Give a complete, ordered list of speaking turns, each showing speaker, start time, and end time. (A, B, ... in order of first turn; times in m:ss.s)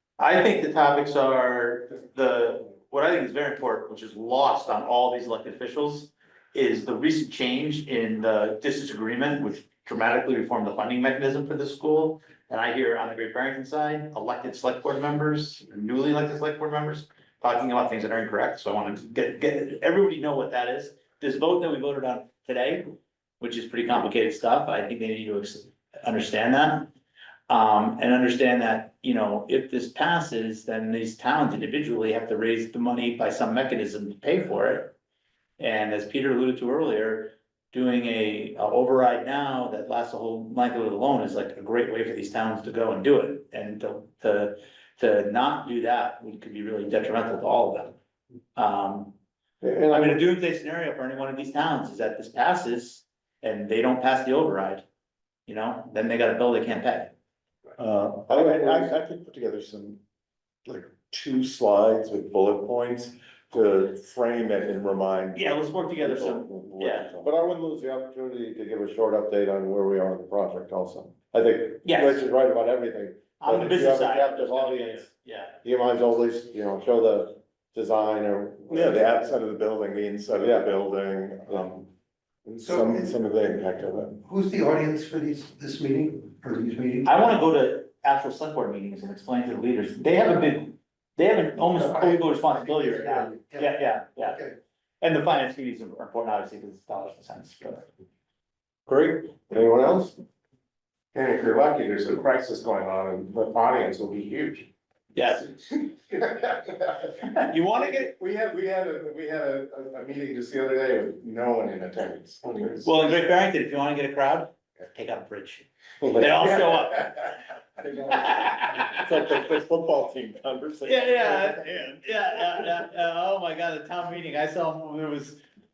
0:00.2-0:22.9 A
0:23.4-0:26.9 A
0:27.5-0:34.9 A
0:35.6-0:48.0 A
0:48.6-0:49.2 A
0:49.6-0:50.2 B
0:49.9-0:54.8 A
0:55.5-0:57.1 A
0:57.8-1:00.0 C
0:58.3-0:58.9 B
1:00.7-1:07.3 C
1:05.4-1:07.1 A
1:07.2-1:15.1 B
1:11.8-1:12.3 A
1:13.4-1:15.6 A
1:15.6-1:19.0 B
1:18.7-1:21.9 C
1:20.4-1:20.7 B
1:22.6-1:24.2 C
1:24.2-1:27.1 D
1:27.0-1:34.5 A
1:33.3-1:33.7 D
1:35.0-1:37.9 A
1:38.9-1:39.3 A
1:39.5-1:40.2 B
1:41.1-1:44.7 E
1:45.1-1:45.5 A
1:45.4-1:52.9 E
1:47.4-1:48.1 A
1:52.8-1:57.4 A
1:56.3-1:57.2 E
1:58.0-1:59.0 A
1:58.8-2:02.0 C
2:00.8-2:05.4 A